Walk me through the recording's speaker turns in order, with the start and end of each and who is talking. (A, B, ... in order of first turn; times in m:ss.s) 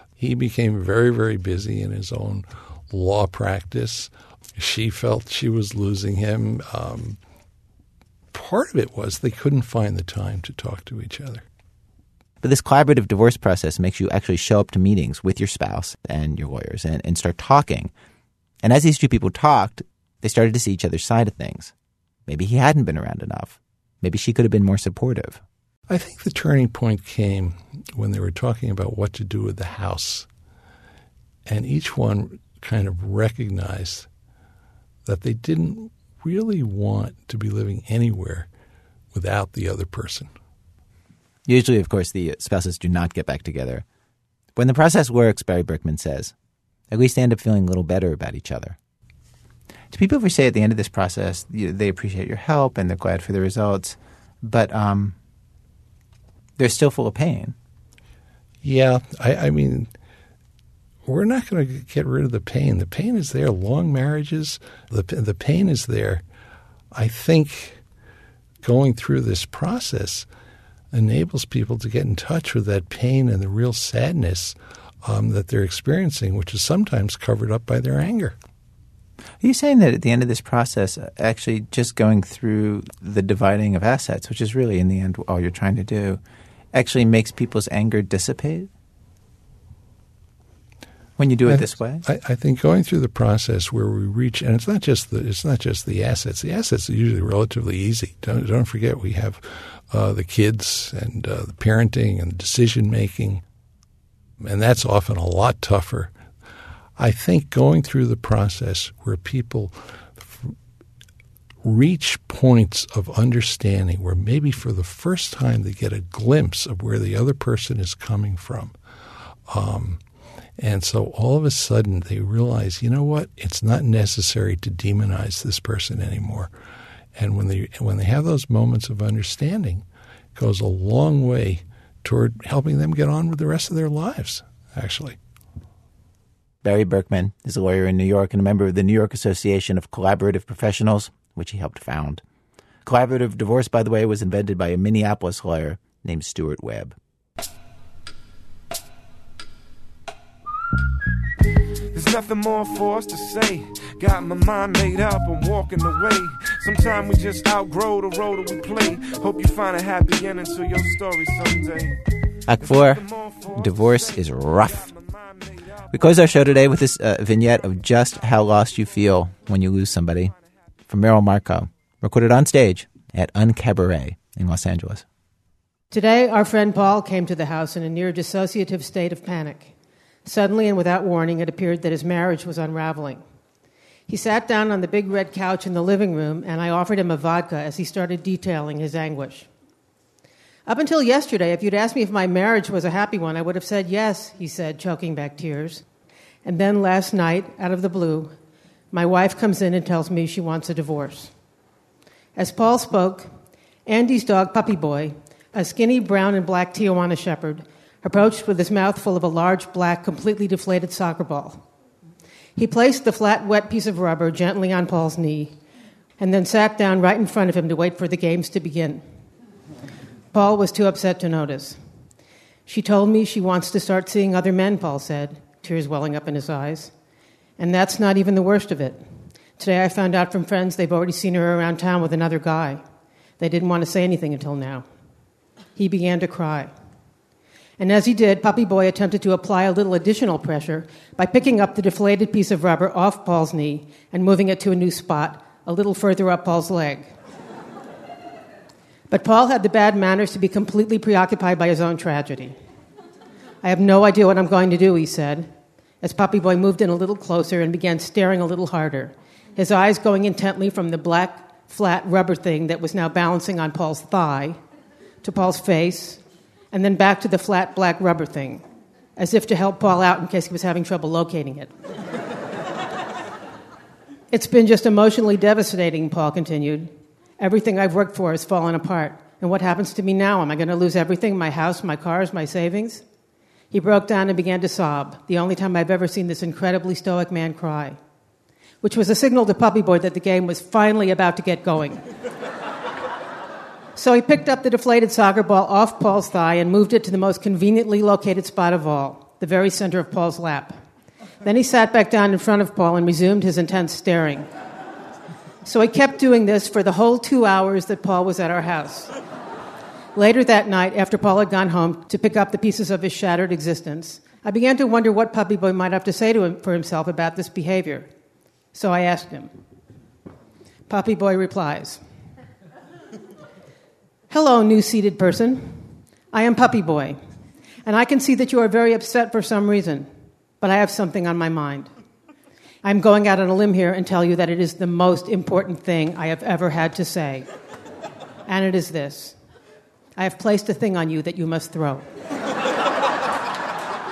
0:00.2-0:07.2 A
0:08.3-0:11.4 A
0:12.4-0:17.9 B
0:18.6-0:21.7 B
0:22.3-0:25.4 B
0:25.9-0:30.3 A
0:31.5-0:34.1 A
0:35.0-0:38.5 A
0:39.1-0:40.3 A
0:41.4-0:43.8 B
0:44.6-0:46.3 B
0:46.9-0:48.8 B
0:49.9-0:55.1 B
0:56.6-0:57.5 B
0:58.6-0:59.9 A
1:01.0-1:06.2 A
1:06.9-1:07.8 A
1:08.6-1:10.3 A
1:10.9-1:18.4 A
1:19.4-1:26.2 B
1:26.7-1:28.7 B
1:31.2-1:32.0 B
1:31.4-1:43.4 A
1:44.4-1:46.1 A
1:47.0-1:50.5 A
1:51.6-1:58.7 A
1:59.5-2:00.0 A
2:00.6-2:06.5 A
2:07.2-2:15.2 A
2:16.6-2:22.2 B
2:22.8-2:26.9 B
2:31.9-2:42.0 C
2:42.5-2:44.9 B
2:42.6-2:46.4 C
2:45.9-2:50.3 B
2:50.9-2:55.0 B
2:55.9-2:59.7 D
3:00.2-3:03.2 D
3:04.1-3:09.5 D
3:10.7-3:15.8 D
3:16.4-3:18.3 D
3:18.9-3:21.3 D
3:22.4-3:23.3 D
3:23.8-3:31.6 D
3:32.6-3:35.5 D
3:36.2-3:39.0 D
3:40.3-3:41.8 D
3:42.7-3:46.9 D
3:47.6-3:49.0 D
3:49.6-3:52.8 D
3:53.4-3:54.8 D
3:55.8-3:56.7 D
3:57.8-4:07.1 D
4:09.1-4:12.5 D
4:13.6-4:15.5 D
4:16.0-4:24.6 D
4:25.2-4:28.6 D
4:29.2-4:31.7 D
4:34.3-4:43.0 D
4:43.7-4:48.0 D
4:48.8-4:52.0 D
4:54.0-5:00.8 D
5:01.4-5:04.5 D
5:05.6-5:09.1 D
5:10.1-5:18.1 D
5:18.7-5:19.5 D
5:20.9-5:22.0 D
5:24.3-5:27.2 D
5:27.8-5:30.1 D
5:30.6-5:31.9 D
5:32.8-5:37.5 D
5:38.5-5:39.4 D
5:40.2-5:42.0 D